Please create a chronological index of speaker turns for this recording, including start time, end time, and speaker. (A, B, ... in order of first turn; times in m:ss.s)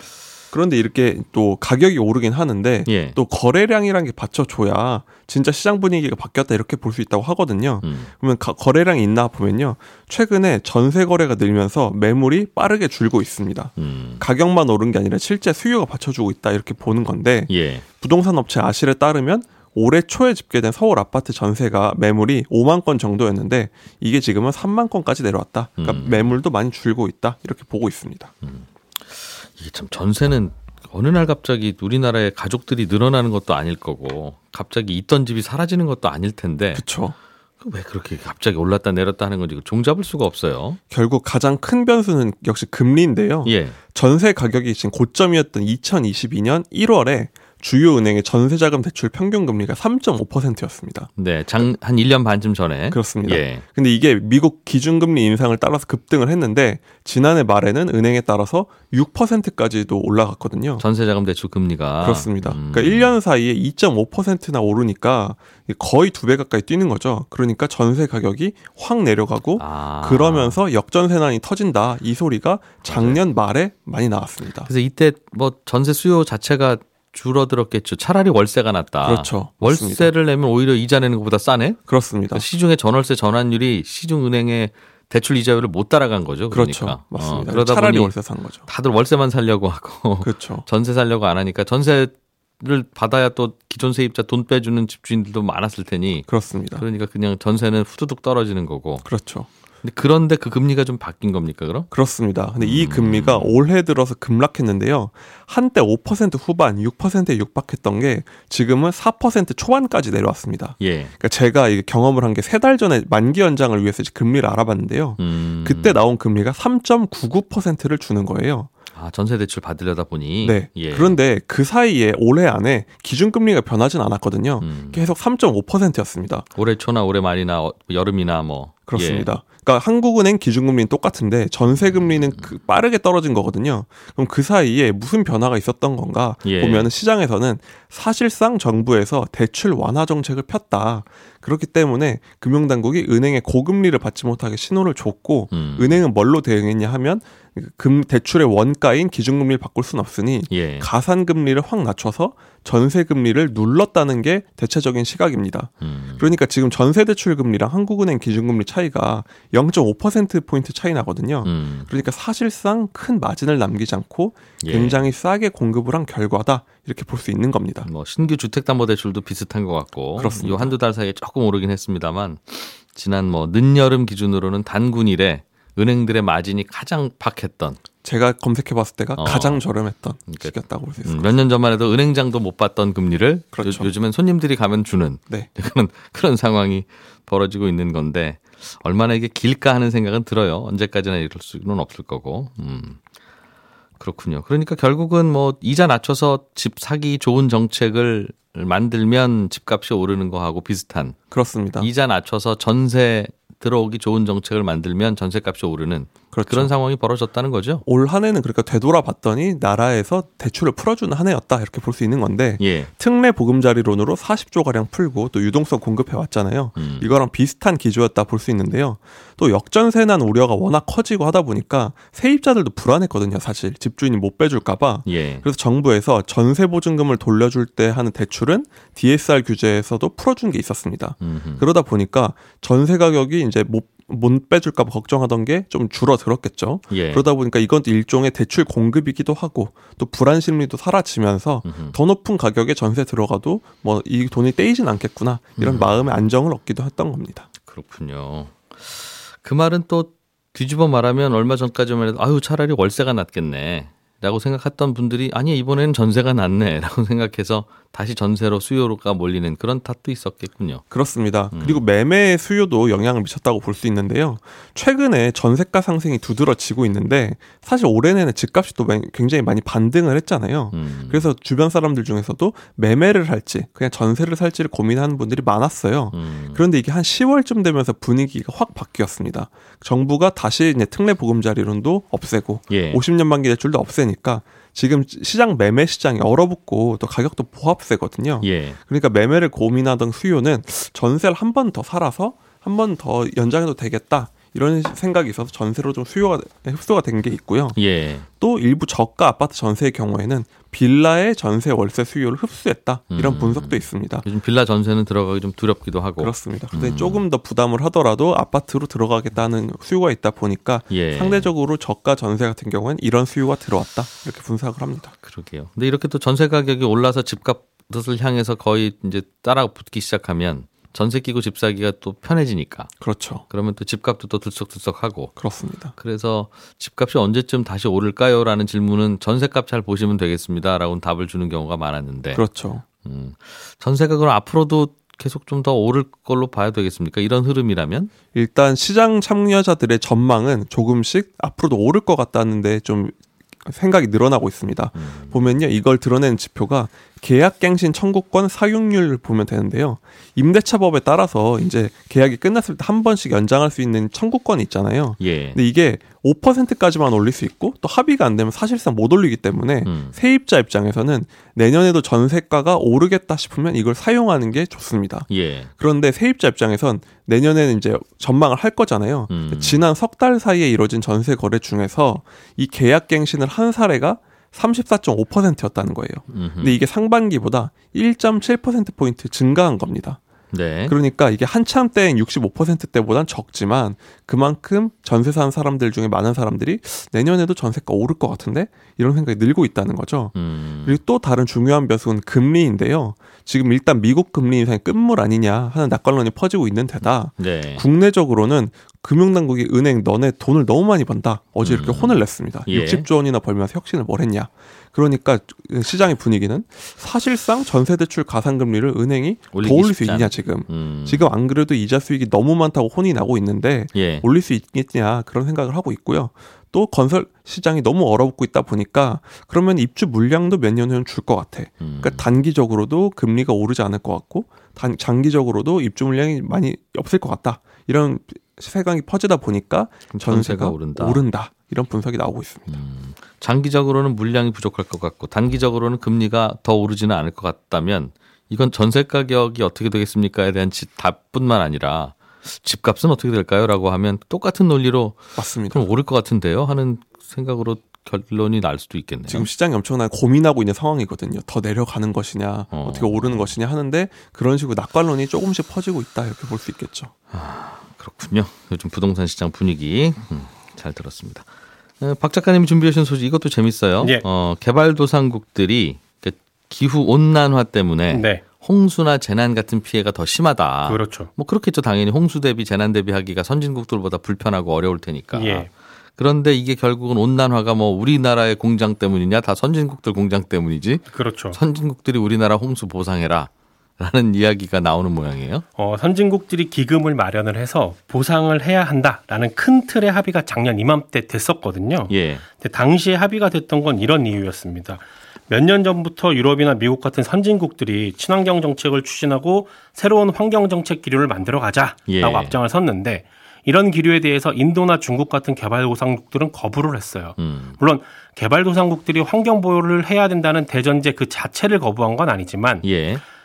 0:00.5-0:28.3 A
0:02.8-0:03.2 B
0:07.8-0:08.1 B
0:13.8-0:14.2 B
0:17.5-0:17.9 B
0:25.8-0:26.4 B
0:28.4-0:36.8 B
0:36.7-0:37.2 A
0:37.6-0:40.8 B
0:40.9-0:51.7 A
0:43.4-0:43.8 B
0:51.2-0:53.6 B
0:52.9-1:00.8 A
1:00.8-1:03.2 B
1:02.0-1:14.7 A
1:09.6-1:10.6 B
1:12.8-1:13.2 B
1:14.6-1:21.8 B
1:19.0-1:20.1 A
1:21.9-1:22.5 A
1:22.3-1:28.1 B
1:26.5-1:28.7 A
1:28.7-1:39.0 B
1:30.2-1:30.7 A
1:36.3-1:36.8 A
1:39.0-1:39.5 A
1:39.8-1:41.9 B
1:41.9-1:58.7 A
1:42.6-1:43.6 B
1:50.8-1:51.1 B
1:55.2-1:56.0 B
1:59.0-2:01.2 B
2:00.4-2:06.5 A
2:04.6-2:05.0 B
2:06.6-2:09.3 B
2:08.9-2:47.9 A
2:16.4-2:16.9 B
2:25.5-2:26.0 B
2:30.5-2:30.9 B
2:35.8-2:36.3 B
2:41.4-2:41.9 B
2:44.6-2:45.0 B
2:47.8-2:57.8 B
2:50.2-2:50.8 A
2:58.0-3:01.4 A
2:59.2-2:59.6 B
3:00.3-3:13.0 B
3:03.5-3:03.9 A
3:14.0-3:21.2 B
3:21.3-3:21.9 A
3:21.8-3:27.8 B
3:26.3-3:26.7 A
3:27.8-4:07.5 A
3:32.6-3:32.9 B
3:36.8-3:37.1 B
3:45.1-3:45.5 B
3:51.2-3:51.7 B
3:56.9-3:57.3 B
4:01.6-4:02.0 B
4:05.6-4:06.0 B
4:07.6-4:20.8 B
4:20.9-4:57.8 A
4:21.5-4:21.8 B
4:30.7-4:31.3 B
4:36.1-4:36.6 B
4:42.7-4:43.0 B
4:48.4-4:48.8 B
4:57.8-4:58.3 B
4:58.3-5:04.2 A
5:03.1-5:07.2 B
5:06.2-5:15.1 A
5:10.9-5:11.5 B
5:15.2-5:22.9 B
5:23.0-5:23.4 A
5:23.5-5:25.3 B
5:25.4-5:25.9 A
5:26.0-5:32.4 B
5:32.3-5:32.8 A
5:33.0-5:38.1 B
5:38.3-6:20.2 A
5:45.0-5:45.5 B
5:55.2-5:55.6 B
5:59.8-6:00.2 B
6:05.3-6:05.7 B
6:09.3-6:09.8 B
6:16.3-6:16.8 B
6:20.5-6:21.0 B
6:20.9-7:12.8 A
6:30.4-6:31.0 B
6:37.4-6:37.8 B
6:41.6-6:43.1 B
6:49.5-6:51.3 B
6:53.9-6:54.3 B
7:01.8-7:02.3 B
7:10.1-7:11.2 B
7:12.7-7:29.5 B
7:25.4-7:25.9 A
7:29.3-7:37.1 A
7:32.7-7:33.6 B
7:37.3-7:41.5 B
7:42.0-8:05.6 B
7:48.1-7:48.4 C
7:50.9-7:51.3 C
7:55.3-7:55.7 C
8:01.1-8:01.6 C
8:05.8-8:32.8 C
8:12.1-8:12.4 B
8:22.1-8:22.6 B
8:27.4-8:27.8 B
8:32.8-8:33.2 B